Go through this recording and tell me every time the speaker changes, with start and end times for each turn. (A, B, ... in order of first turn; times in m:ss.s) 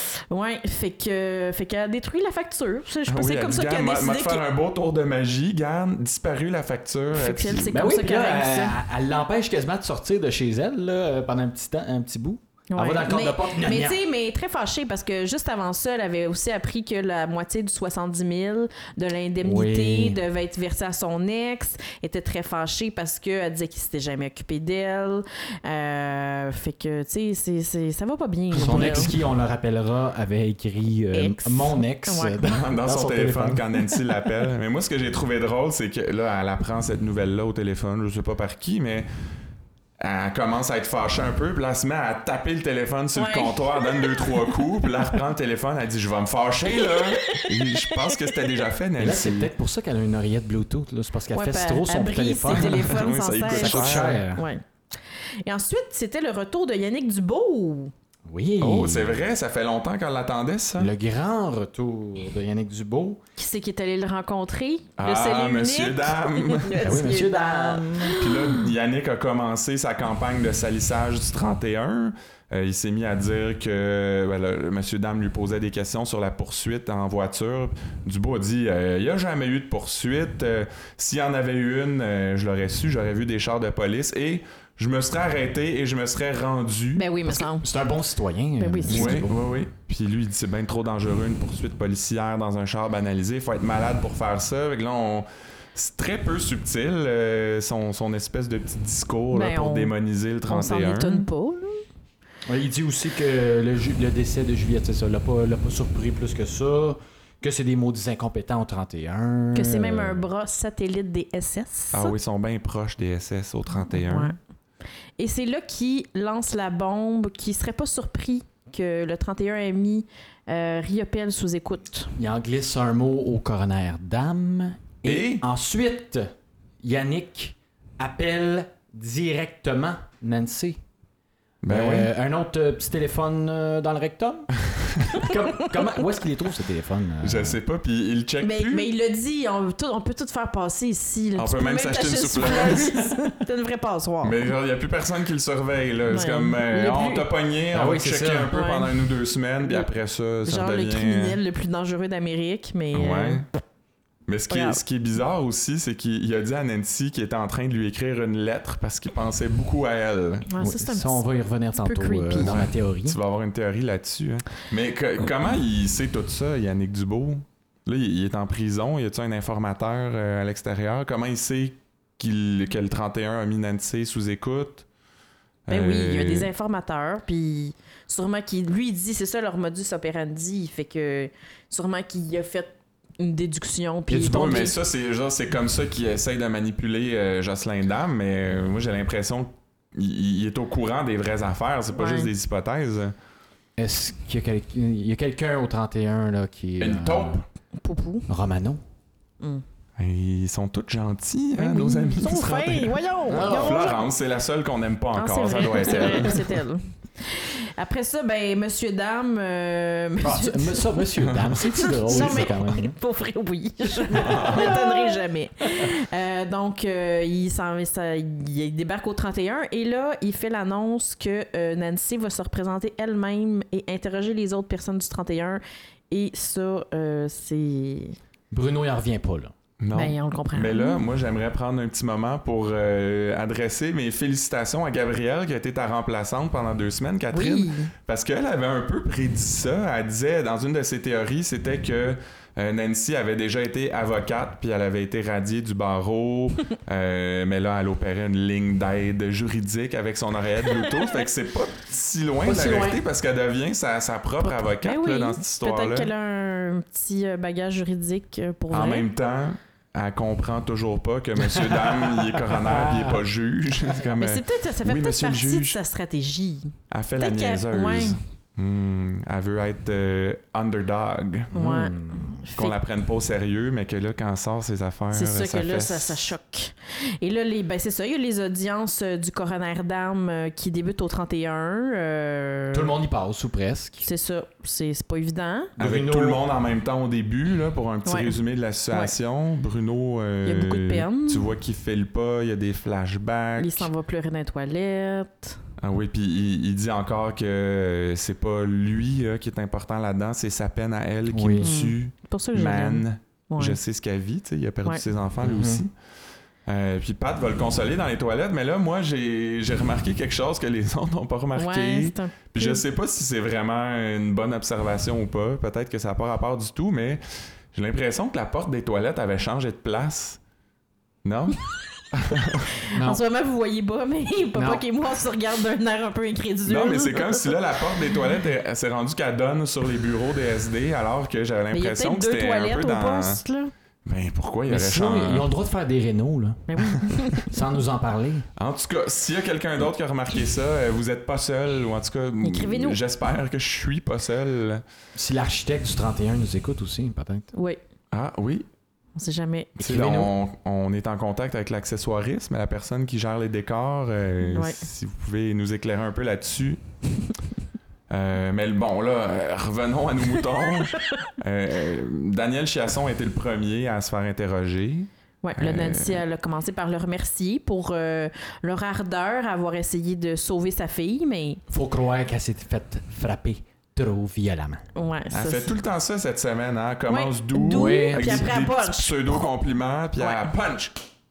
0:00.3-0:04.4 A
0:03.1-0:07.8 B
0:07.1-0:08.8 A
0:07.7-0:14.0 C
0:12.7-0:29.1 A
0:19.4-0:20.2 C
0:28.5-0:29.1 B
0:28.6-0:33.7 C
0:31.1-0:32.4 A
0:32.4-0:39.1 B
0:40.0-0:49.5 B
0:43.1-0:45.1 A
0:46.7-0:48.5 A
0:49.0-0:54.5 C
0:51.3-0:54.6 A
0:52.5-0:54.2 B
0:55.4-0:57.9 A
0:58.3-0:59.2 C
0:58.6-1:00.9 B
1:00.8-1:03.2 C
1:03.4-1:08.7 A
1:05.0-1:06.7 B
1:06.8-1:08.2 C
1:08.1-1:27.0 B
1:27.0-1:27.7 A
1:27.3-1:29.4 C
1:28.6-1:29.3 A
1:28.9-1:41.3 B
1:39.3-1:39.9 A
1:40.5-1:41.8 A
1:42.4-1:50.3 C
1:49.5-1:52.1 A
1:51.9-1:54.3 B
1:53.7-1:54.3 A
1:55.2-2:02.2 A
2:02.2-2:06.3 C
2:05.0-2:05.4 B
2:06.8-2:10.8 C
2:11.6-2:12.1 B
2:11.7-2:14.5 C
2:14.7-2:15.2 B
2:15.1-2:17.6 C
2:15.2-2:15.7 A
2:17.2-2:18.9 B
2:18.4-2:24.5 A
2:21.4-2:23.1 B
2:24.2-2:31.4 B
2:26.1-2:27.3 A
2:27.7-2:28.5 C
2:28.5-2:29.0 A
2:30.4-2:33.5 A
2:32.9-2:33.4 B
2:34.3-2:40.5 B
2:34.5-2:34.8 A
2:40.5-2:41.2 A
2:40.6-2:43.2 C
2:41.8-2:42.5 A
2:42.4-2:54.9 B
2:55.7-2:56.5 B
2:55.7-3:04.7 A
3:04.1-3:04.7 C
3:04.2-3:13.1 B
3:11.9-3:12.3 A
3:13.8-3:17.4 C
3:16.8-3:17.4 B
3:17.8-3:18.3 A
3:18.3-3:18.8 C
3:20.0-3:26.5 B
3:21.6-3:24.1 A
3:23.3-3:24.0 C
3:25.2-3:31.1 A
3:30.2-3:32.9 C
3:31.2-3:31.6 B
3:31.7-3:48.2 A
3:34.1-3:35.1 C
3:34.1-3:34.8 B
3:48.5-3:49.5 C
3:49.8-4:16.1 B
3:49.9-3:51.0 A
3:57.3-3:57.9 A
4:10.8-4:11.0 A
4:12.4-4:13.0 C
4:14.4-4:19.1 A
4:18.7-4:25.8 B
4:21.4-4:23.2 C
4:24.2-4:28.2 A
4:26.9-4:31.6 B
4:31.5-4:32.4 C
4:31.5-4:32.8 A
4:32.5-4:36.3 B
4:35.1-4:42.9 A
4:42.7-4:44.1 C
4:44.0-4:45.7 A
4:45.8-4:46.4 C
4:45.8-4:53.9 B
4:48.0-4:48.4 A
4:50.4-4:51.5 A
4:53.6-4:55.6 A
4:55.8-5:05.9 B
5:01.3-5:01.7 C
5:01.6-5:03.8 A
5:05.4-5:05.8 C
5:06.6-5:20.4 B
5:11.6-5:12.8 A
5:21.2-5:21.6 B
5:22.1-5:22.7 B
5:22.8-5:28.2 A
5:22.9-5:23.2 C
5:24.5-5:24.8 C
5:26.6-5:33.4 B
5:31.7-5:33.7 A
5:34.0-5:35.5 B
5:34.7-5:36.7 C
5:36.7-5:37.6 A
5:37.4-5:38.5 C
5:38.6-5:44.8 B
5:42.4-5:43.0 A
5:45.1-5:47.5 C
5:47.5-5:47.8 A
5:48.1-5:48.6 B
5:49.2-5:49.7 A
5:49.8-5:50.3 C
5:49.8-5:56.8 B
5:54.5-5:54.8 A
5:58.1-6:06.2 B
6:05.4-6:11.6 A
6:11.7-6:14.8 C
6:14.9-6:15.7 A
6:15.3-6:21.0 B
6:17.1-6:19.5 A
6:17.6-6:18.5 C
6:20.2-6:20.5 A